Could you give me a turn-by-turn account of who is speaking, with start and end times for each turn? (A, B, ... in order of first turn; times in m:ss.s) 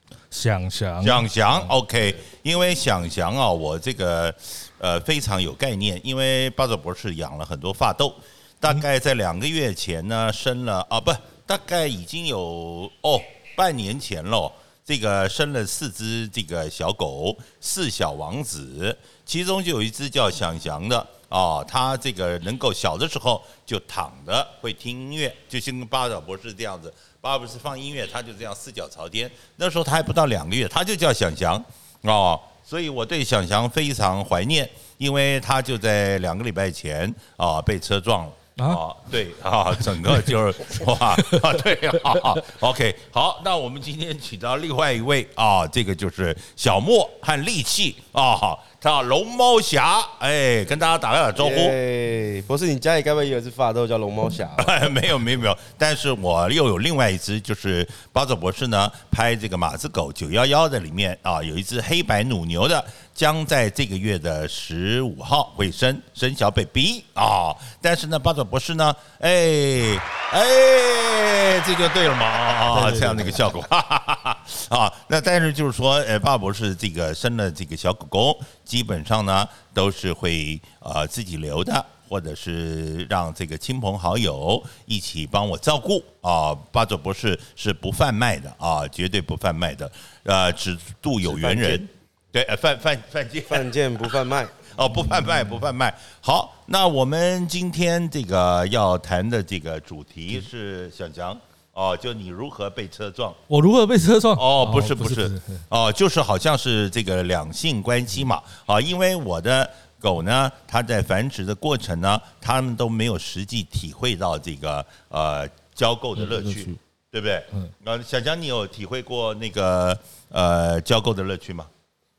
0:00.3-0:01.7 A
0:01.0-0:51.7 B
0:51.4-0:54.9 C
0:54.6-1:33.7 B
1:12.7-1:13.4 A
1:31.3-1:31.8 C
1:33.5-1:34.6 C
1:34.7-1:43.4 B
1:43.5-1:45.6 A
1:44.4-2:01.7 B
1:56.2-1:56.8 A